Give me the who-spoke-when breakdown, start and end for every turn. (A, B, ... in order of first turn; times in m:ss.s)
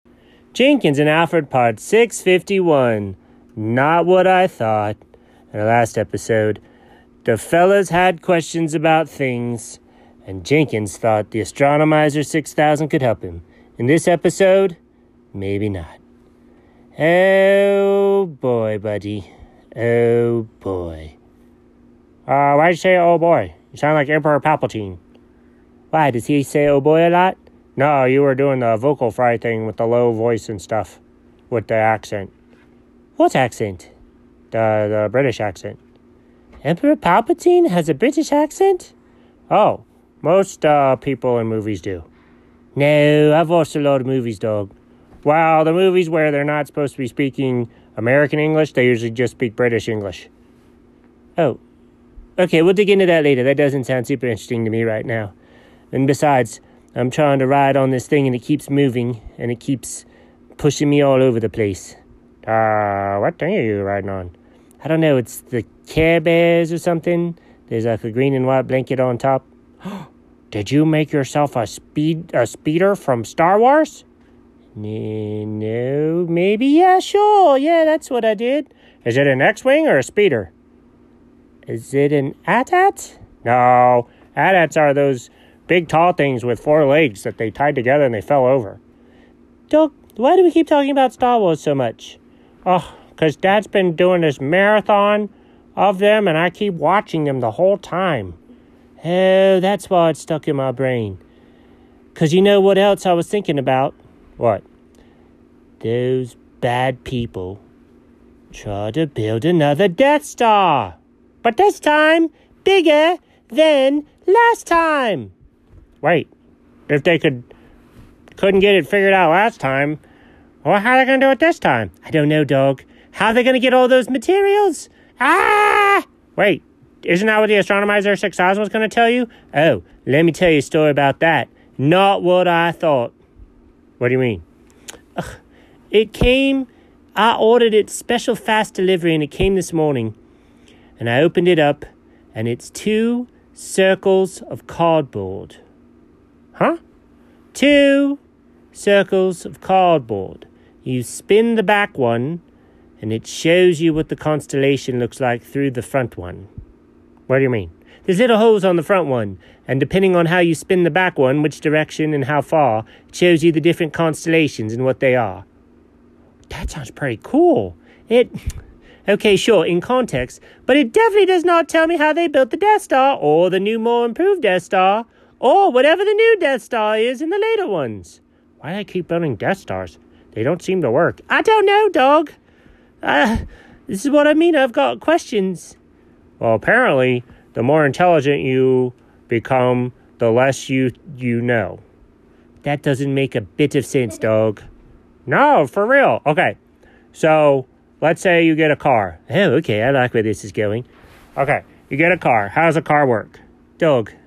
0:00.5-0:05.0 A
0:05.5-0:06.6 A
0:07.2-0:14.8 A
0:15.3-0:16.0 A
0:17.0-0:21.2 A
0:22.3-0:25.0 A
0:25.9-0:32.3 A
0:33.2-0:33.9 A
0:34.5-0:35.8 A
0:36.6-0:38.9 A
0:39.5-0:42.1 A
0:42.7-0:44.7 A
0:45.2-0:50.3 A
0:52.4-0:55.3 A
0:55.9-1:14.0 A
1:14.7-1:20.5 A
1:21.7-1:28.8 A
1:29.7-1:38.4 A
1:39.0-1:41.2 A
1:42.1-1:44.6 A
1:45.8-1:47.6 A
1:48.5-1:55.3 A
1:56.0-1:56.3 A
1:56.9-1:57.5 A
1:58.4-2:00.0 A
2:00.6-2:13.2 A
2:14.0-2:14.4 A
2:15.9-2:20.1 A
2:21.0-2:25.6 A
2:27.5-2:28.2 A
2:28.7-2:32.4 A
2:33.0-2:36.5 A
2:37.3-2:45.5 A
2:46.5-2:48.3 A
2:49.0-3:02.3 A
3:03.0-3:05.8 A
3:06.4-3:11.8 A
3:12.6-3:14.6 A
3:15.3-3:16.6 A
3:17.1-3:24.1 A